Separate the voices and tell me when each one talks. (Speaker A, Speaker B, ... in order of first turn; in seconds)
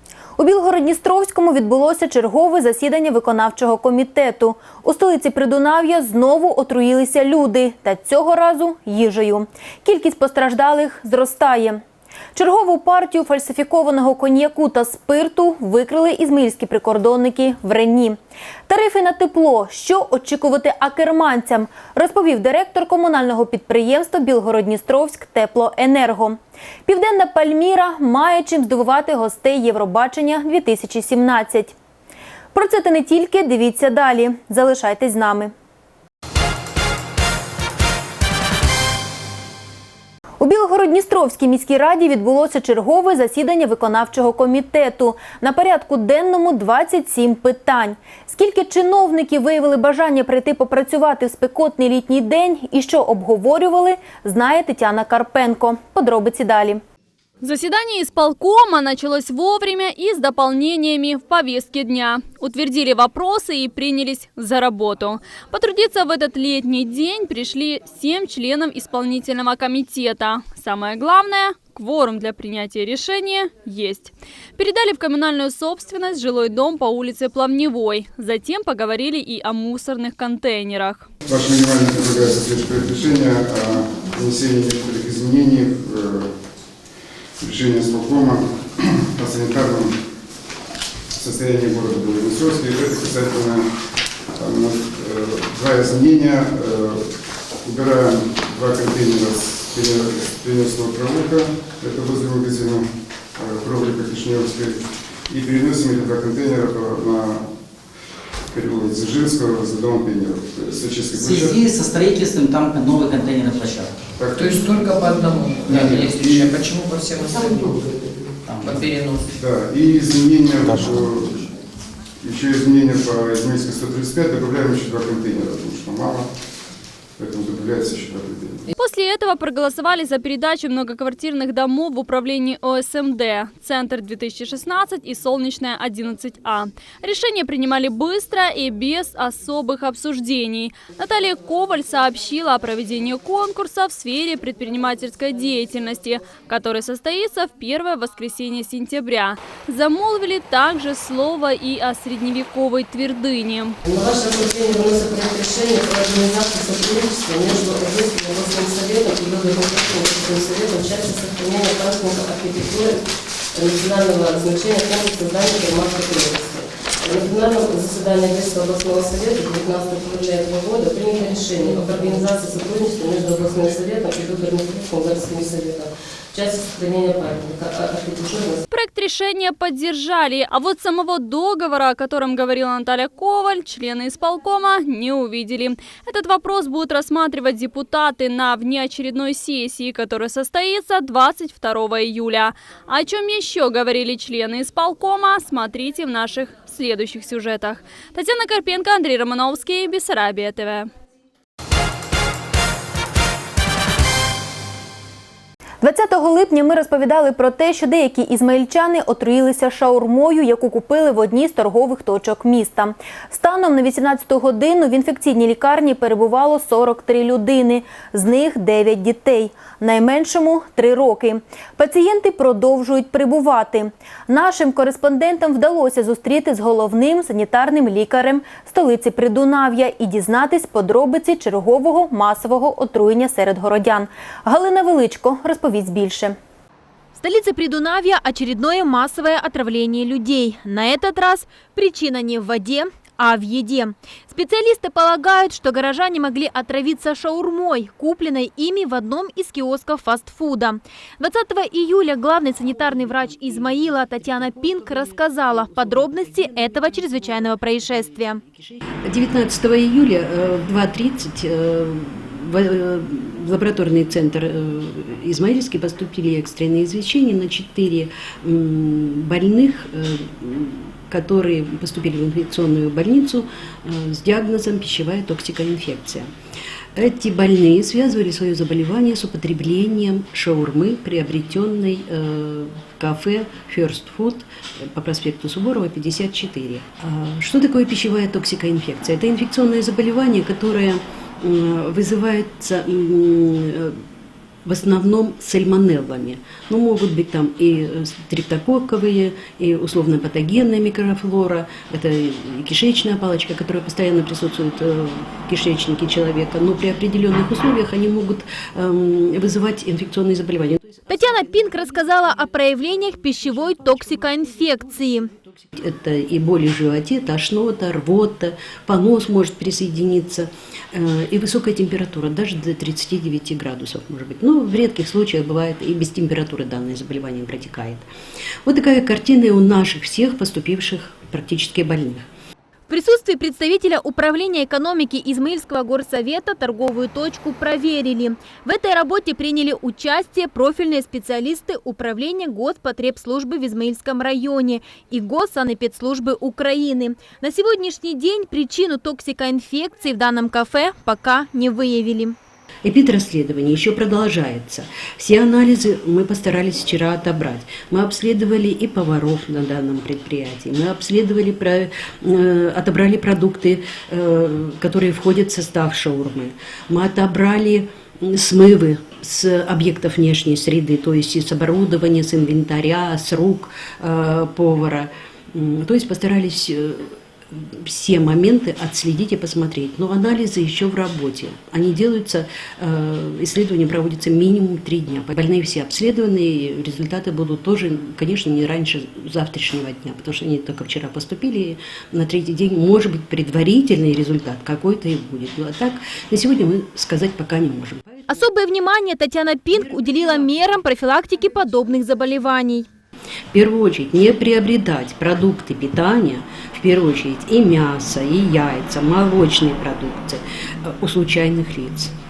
Speaker A: 0.4-11.8, 12.3-31.7, 32.5-35.5, 40.4-56.8, 205.8-236.4
Speaker B: 57.4-81.1, 128.8-153.8, 178.7-200.9
Speaker C: 81.2-86.3, 87.4-90.0, 91.1-93.7, 94.3-97.1, 97.6-107.5, 108.5-111.6, 114.2-114.6, 115.7-116.6, 119.3-121.4, 122.2-126.3, 127.2-128.6
Speaker D: 111.2-113.9, 118.5-118.7
Speaker E: 114.3-118.0, 118.6-119.3
Speaker F: 153.8-163.0, 163.5-178.6
Speaker G: 237.2-258.4, 311.1-315.3, 332.9-352.4, 398.3-402.9
Speaker H: 252.4-276.3, 276.9-294.1, 294.6-328.1, 328.6-332.2, 352.8-398.5, 399.7-400.8, 401.5-401.9, 403.5-412.1